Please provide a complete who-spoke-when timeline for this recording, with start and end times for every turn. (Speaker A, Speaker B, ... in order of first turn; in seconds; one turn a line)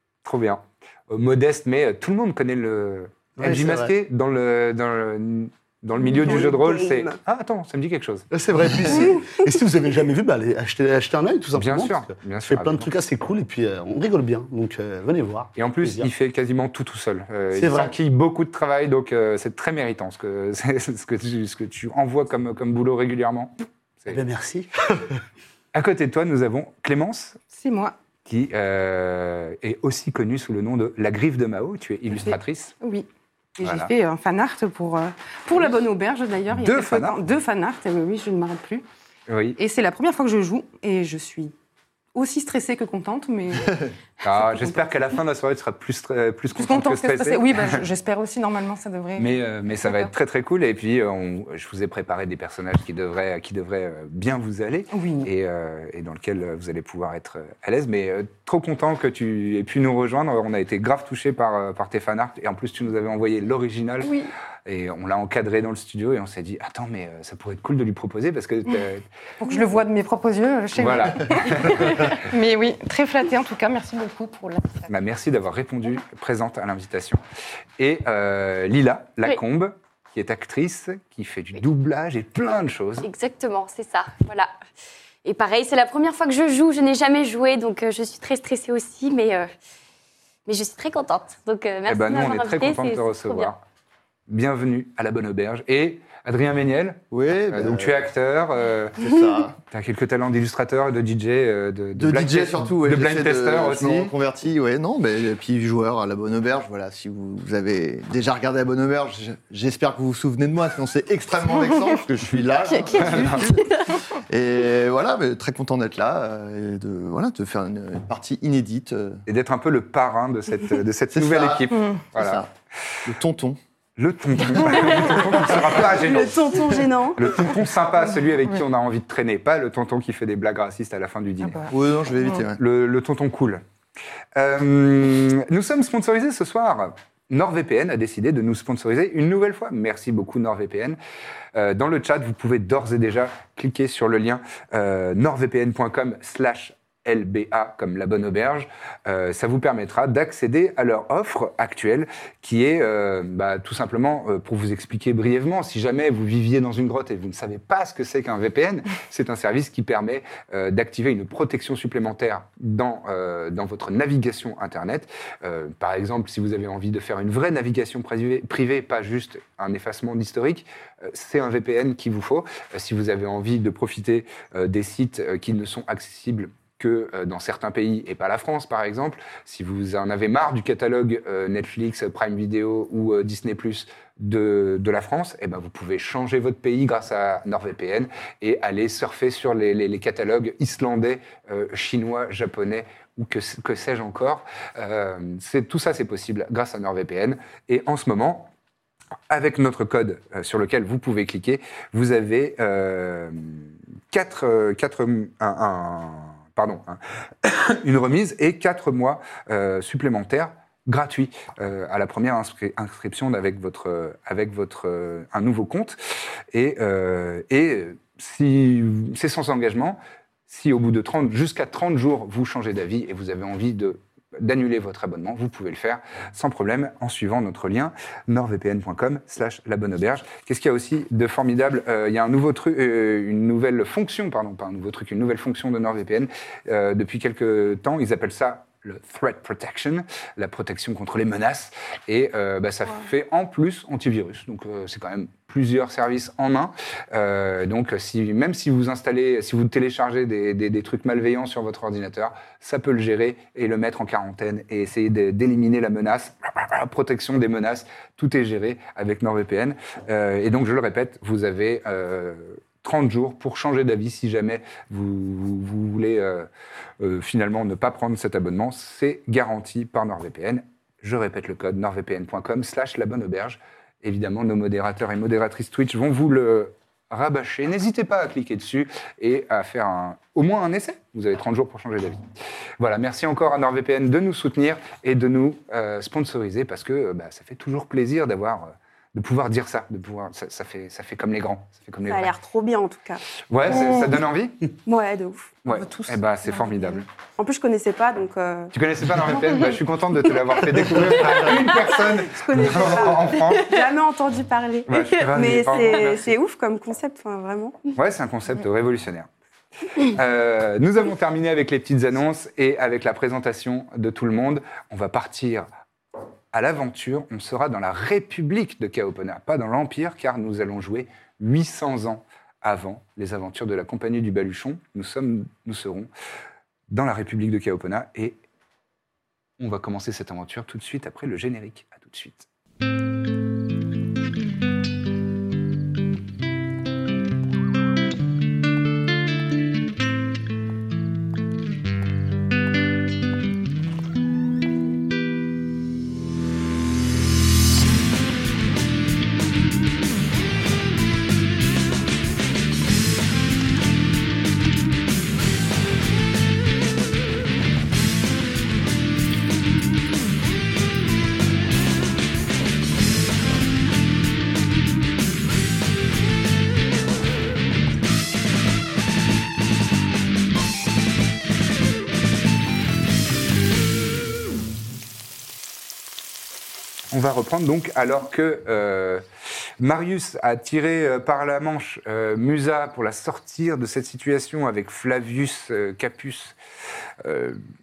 Speaker A: 0.2-8.3
Speaker B: 3.4-3.9
Speaker C: 6.0-7.2
Speaker B: 8.3-16.1
Speaker A: 11.5-12.9
Speaker A: 15.6-24.2
Speaker B: 17.5-17.9
Speaker B: 24.1-25.2
Speaker A: 25.7-27.4
Speaker D: 27.5-27.9
Speaker A: 28.2-32.8
Speaker D: 32.1-38.8
Speaker A: 33.6-33.9
Speaker A: 36.5-37.2
Speaker A: 39.3-39.6
Speaker D: 39.6-41.5
Speaker D: 42.1-44.9
Speaker A: 44.2-47.8
Speaker D: 46.5-49.3
Speaker A: 49.2-69.0
Speaker D: 49.9-50.1
Speaker D: 54.9-55.3
Speaker D: 64.0-64.3
Speaker D: 69.4-74.9
Speaker A: 70.8-72.2
Speaker A: 74.9-77.2
Speaker A: 77.8-83.1
Speaker E: 83.0-84.5
Speaker E: 85.2-89.5
Speaker E: 90.5-93.5
Speaker A: 91.8-93.6
Speaker A: 94.3-99.0
Speaker F: 97.1-98.0
Speaker F: 99.0-99.6
Speaker A: 99.7-104.1
Speaker F: 102.0-119.2
Speaker D: 112.7-114.0
Speaker A: 113.0-113.5
Speaker A: 119.3-122.4
Speaker F: 121.1-122.5
Speaker F: 123.0-123.6
Speaker A: 124.0-131.7
Speaker D: 124.7-125.1
Speaker C: 125.4-127.3
Speaker D: 131.4-132.5
Speaker F: 131.7-132.6
Speaker A: 132.5-133.6
Speaker A: 134.3-141.0
Speaker A: 141.5-198.5
Speaker A: 199.3-216.0
Speaker A: 216.5-266.5
Speaker A: 267.0-282.2
Speaker A: 282.8-292.3
Speaker C: 292.1-293.2
Speaker A: 293.3-294.7
Speaker C: 294.9-295.6
Speaker A: 295.6-297.1
Speaker D: 295.7-297.0
Speaker C: 297.4-298.7
Speaker A: 298.7-303.9
Speaker C: 301.0-307.8
Speaker A: 304.9-306.4
Speaker A: 307.9-309.3
Speaker A: 309.9-315.7
Speaker A: 316.5-326.1
Speaker A: 326.9-328.4
Speaker A: 329.6-332.5
Speaker A: 377.1-379.2
Speaker A: 379.8-386.6
Speaker A: 387.2-387.6